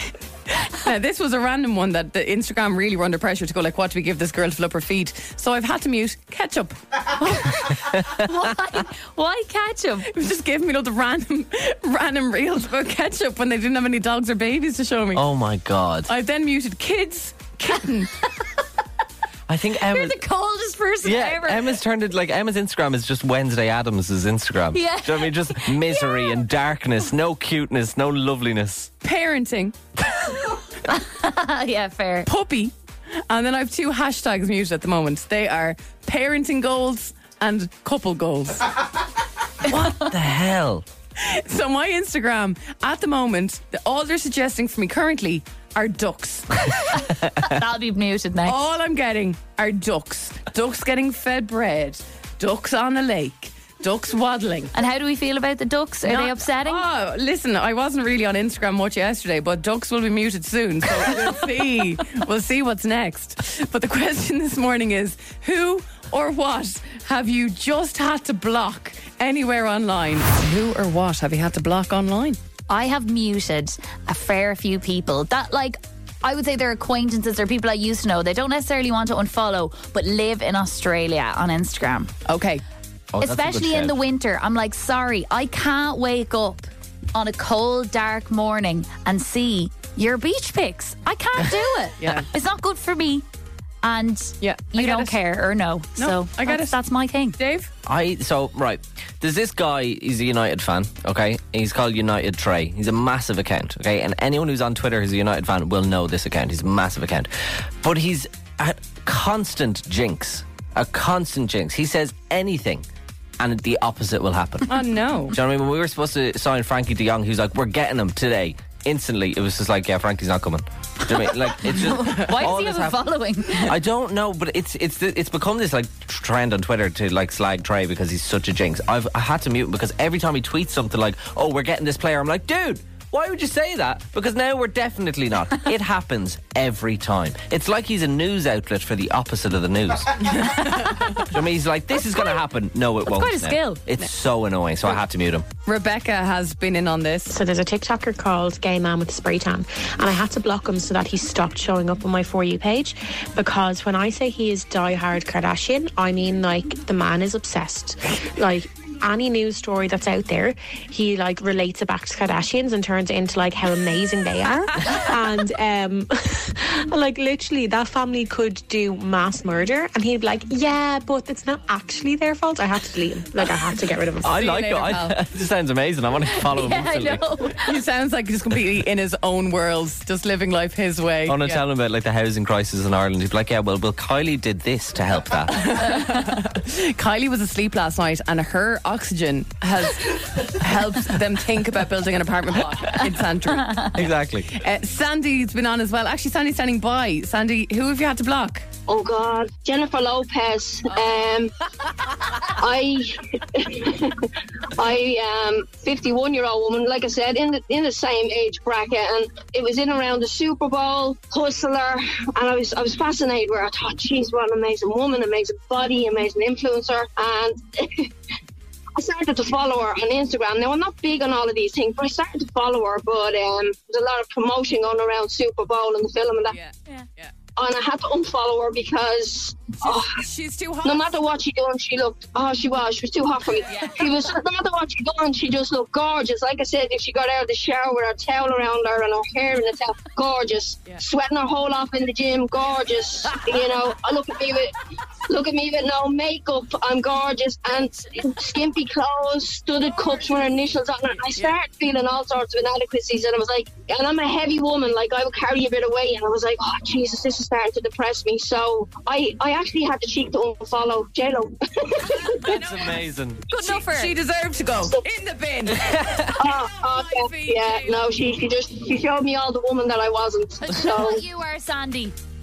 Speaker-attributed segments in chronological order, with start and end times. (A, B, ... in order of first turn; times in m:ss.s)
0:00.6-0:07.8 A
0:07.2-0:10.1 B
0:10.1-0:15.2 A
0:15.1-0:16.1 C
0:16.1-0:18.1 A
0:19.5-0:20.2 C
0:19.7-0:21.8 B
0:21.0-0:28.9 C
0:24.7-0:26.4 B
0:29.0-0:29.8 A
0:30.8-0:32.3 B
0:32.2-0:32.7 A
0:33.3-0:38.8 A
0:39.7-0:40.1 A
0:39.7-0:40.8 C
0:41.2-0:47.1 A
0:47.4-0:48.6 B
0:48.4-0:54.7 A
0:54.7-0:56.8 B
0:56.0-1:12.4 A
1:12.7-1:22.1 B
1:22.3-1:22.6 A
1:23.1-1:23.9 C
1:23.2-1:33.2 B
1:32.0-1:32.3 A
1:33.8-1:37.4 B
1:34.4-1:35.2 A
1:36.0-1:36.8 A
1:37.4-1:37.7 A
1:37.8-1:52.8 C
1:53.4-2:03.1 C
1:54.7-1:55.4 A
2:01.2-2:03.7 B
2:03.6-2:20.3 C
2:20.3-2:21.0 A
2:20.4-2:21.3 B
2:21.3-2:25.4 C
2:23.0-2:23.9 B
2:25.6-2:27.3 A
2:27.3-2:54.3 D
2:54.2-2:57.2 C
2:54.3-2:55.2 A
2:56.3-2:57.8 B
2:57.5-3:01.6 A
3:01.3-3:05.7 C
3:05.5-3:18.7 A
3:13.9-3:14.5 C
3:18.9-3:21.5 E
3:20.9-3:21.3 A
3:22.5-3:38.1 E
3:39.0-3:46.6 E
3:46.5-3:47.3 A
3:47.6-3:50.2 E
3:49.8-3:51.2 A
3:50.8-4:22.7 E
3:53.6-3:53.9 A
3:53.7-3:54.0 B
4:22.1-4:28.1 A
4:22.5-4:23.4 C
4:23.5-4:24.1 B
4:25.9-4:26.3 C
4:26.3-4:31.2 E
4:30.6-4:32.2 B